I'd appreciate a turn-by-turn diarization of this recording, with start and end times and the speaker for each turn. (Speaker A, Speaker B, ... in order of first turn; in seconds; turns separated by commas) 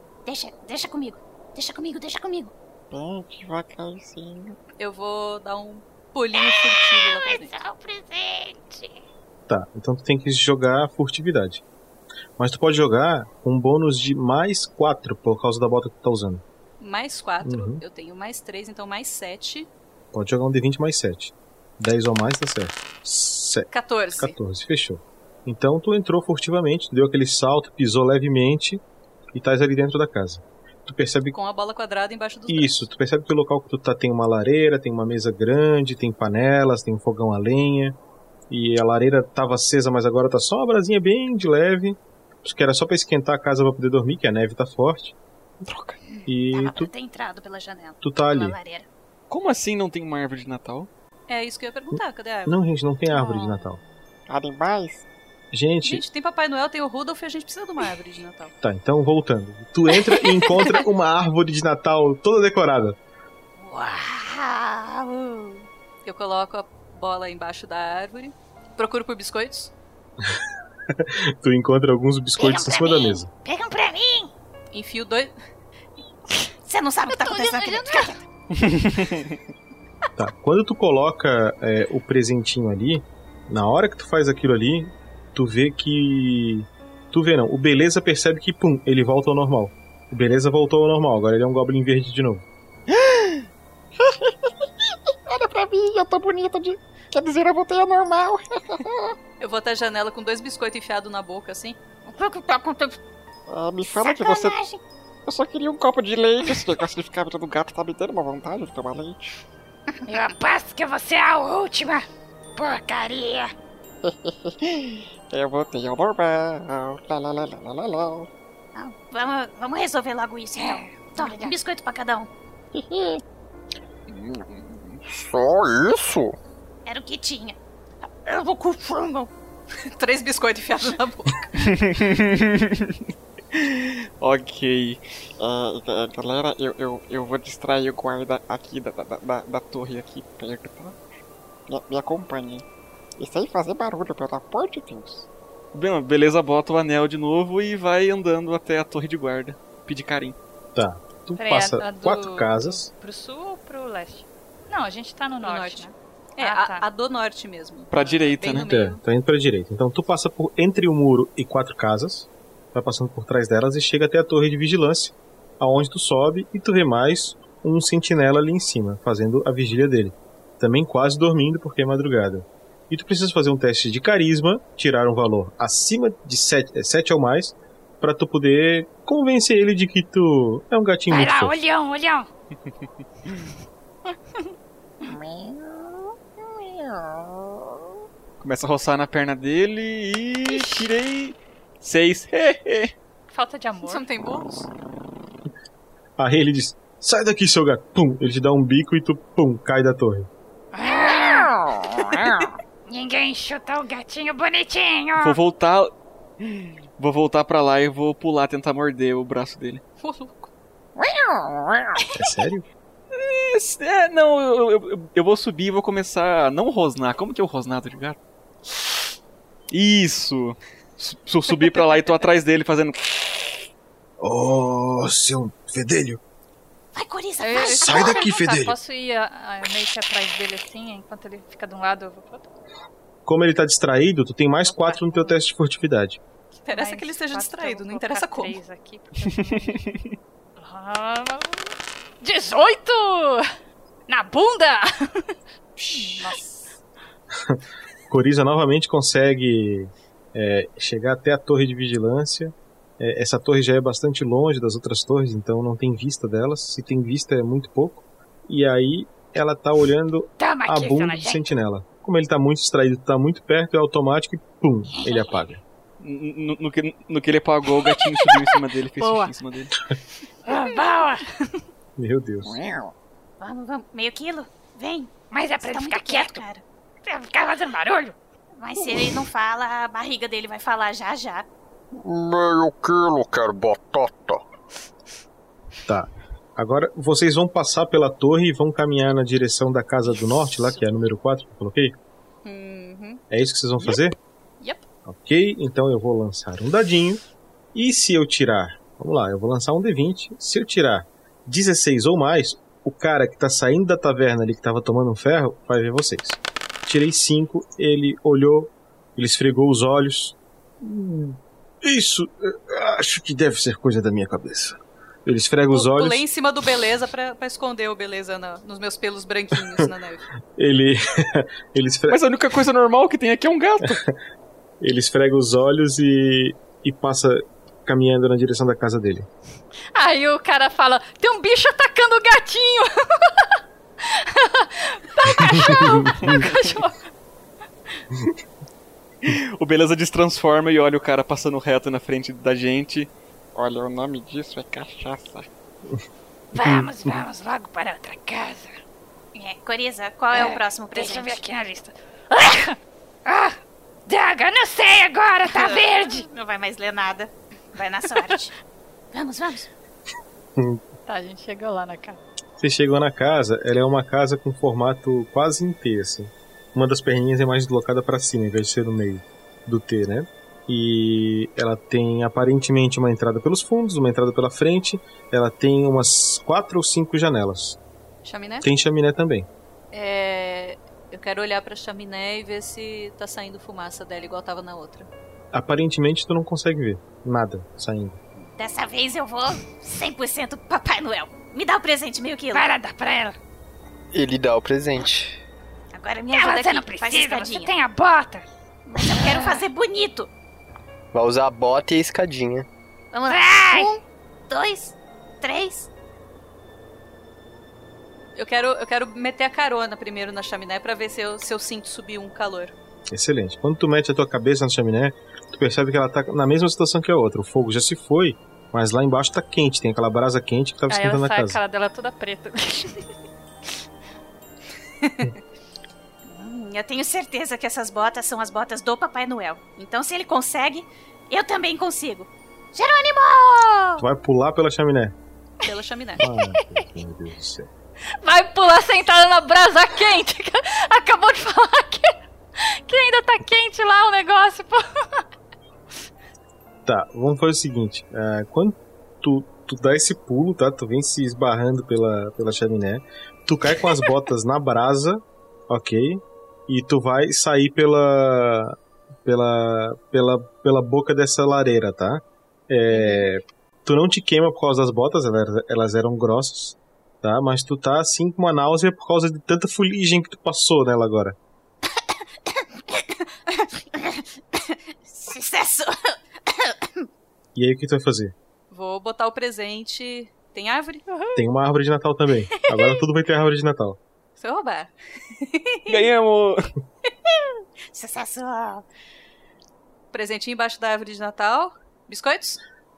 Speaker A: 0.3-2.5, Speaker B: 2.9-4.6, Speaker C: 4.8-7.5, Speaker D: 6.3-9.0, Speaker E: 9.5-11.6, Speaker E: 12.4-16.4, Speaker C: 16.8-19.7, Speaker E: 17.4-17.8, Speaker E: 20.1-28.8, Speaker C: 23.7-24.4, Speaker E: 29.3-31.4, Speaker C: 31.3-32.9, Speaker E: 32.5-38.0, Speaker E: 38.5-45.1, Speaker A: 46.1-48.9, Speaker E: 46.3-46.9, Speaker E: 48.0-48.6, Speaker F: 49.3-50.9, Speaker C: 51.3-52.5, Speaker E: 51.9-53.8, Speaker B: 54.3-55.0, Speaker E: 55.5-56.0, Speaker C: 55.9-58.5, Speaker E: 58.6-63.0, Speaker D: 63.8-64.2, Speaker C: 66.0-69.7, Speaker E: 71.0-73.3, Speaker D: 72.4-74.3, Speaker C: 74.7-75.3, Speaker A: 76.7-78.2, Speaker D: 77.1-78.1, Speaker F: 78.6-79.2, Speaker E: 80.2-92.4, Speaker B: 92.9-93.5, Speaker B: 94.0-94.7, Speaker B: 95.3-99.2, Speaker C: 99.4-101.8, Speaker D: 102.1-103.0, Speaker B: 103.5-104.6, Speaker D: 104.0-104.8, Speaker B: 105.3-109.3, Speaker D: 110.1-113.5, Speaker B: 114.0-118.3, Speaker A: 118.8-122.3, Speaker D: 120.6-121.5, Speaker B: 122.8-123.2, Speaker B: 124.2-124.4, Speaker G: 125.1-126.3, Speaker A: 126.9-127.6, Speaker A: 128.3-129.3, Speaker C: 129.9-131.5, Speaker F: 131.6-132.9, Speaker F: 134.2-135.0, Speaker B: 135.4-141.0, Speaker B: 141.7-142.6, Speaker B: 143.2-145.3, Speaker F: 145.7-150.4, Speaker E: 150.8-152.9, Speaker H: 151.4-156.9, Speaker C: 155.4-159.0, Speaker F: 157.9-158.7, Speaker E: 158.6-181.5, Speaker D: 181.1-182.3, Speaker B: 185.1-187.7, Speaker F: 188.4-192.9, Speaker H: 193.3-194.1, Speaker C: 193.8-194.7, Speaker E: 196.2-200.3, Speaker D: 200.7-201.5, Speaker B: 201.5-202.5, Speaker D: 202.9-205.4, Speaker F: 205.2-205.9, Speaker F: 207.0-209.8, Speaker C: 210.0-210.5, Speaker B: 211.0-212.0, Speaker E: 212.1-212.7, Speaker F: 213.1-218.2, Speaker F: 219.7-223.0, Speaker I: 224.2-226.2, Speaker A: 226.9-228.1, Speaker H: 227.4-232.5, Speaker I: 227.8-228.8, Speaker E: 233.3-236.2, Speaker H: 234.7-235.4, Speaker H: 236.6-239.8, Speaker C: 236.7-238.6, Speaker H: 240.6-243.4, Speaker H: 244.1-244.8, Speaker H: 245.9-246.7, Speaker E: 247.5-265.6, Speaker D: 260.4-261.4, Speaker F: 266.0-269.7, Speaker D: 270.5-271.2, Speaker E: 272.0-272.6, Speaker B: 272.4-272.9, Speaker A: 273.4-276.6, Speaker D: 275.3-276.4, Speaker D: 277.1-278.2, Speaker A: 278.6-281.5, Speaker G: 281.9-284.4, Speaker E: 285.9-291.9, Speaker C: 292.4-293.2, Speaker E: 293.3-294.1, Speaker C: 294.6-294.9, Speaker E: 295.1-297.2, Speaker E: 297.7-314.8, Speaker E: 315.3-316.2, Speaker C: 315.7-320.2, Speaker E: 320.6-322.2, Speaker F: 322.1-324.0, Speaker E: 323.9-324.1, Speaker E: 324.8-329.3, Speaker H: 329.9-333.3, Speaker H: 334.1-337.0, Speaker E: 335.7-336.3, Speaker F: 339.3-343.1, Speaker B: 343.6-345.5, Speaker D: 346.5-348.7, Speaker E: 346.6-346.9, Speaker A: 349.4-351.4, Speaker D: 350.3-356.2, Speaker A: 355.5-358.5, Speaker A: 359.1-359.7, Speaker H: 361.1-362.2, Speaker E: 362.6-377.8, Speaker C: 378.2-378.7, Speaker E: 378.6-379.5, Speaker C: 379.9-385.1, Speaker E: 385.5-388.2, Speaker A: 388.6-392.6, Speaker D: 392.5-393.4, Speaker J: 394.1-395.4, Speaker A: 395.9-397.7, Speaker D: 396.3-398.5, Speaker A: 398.9-400.3, Speaker D: 399.0-399.6, Speaker J: 401.1-402.7, Speaker A: 403.1-405.9, Speaker D: 403.3-403.9, Speaker C: 408.4-412.7, Speaker E: 413.1-421.6, Speaker H: 420.9-423.0, Speaker A: 426.2-434.0, Speaker E: 434.0-435.1, Speaker C: 435.6-436.2, Speaker E: 436.2-437.7, Speaker H: 438.2-442.2, Speaker H: 442.9-445.2, Speaker E: 446.9-471.4, Speaker A: 472.9-476.8, Speaker E: 477.6-478.3, Speaker C: 478.7-481.0, Speaker E: 481.4-484.0, Speaker C: 484.4-486.0, Speaker F: 485.9-486.7, Speaker A: 487.9-488.8, Speaker C: 490.1-492.6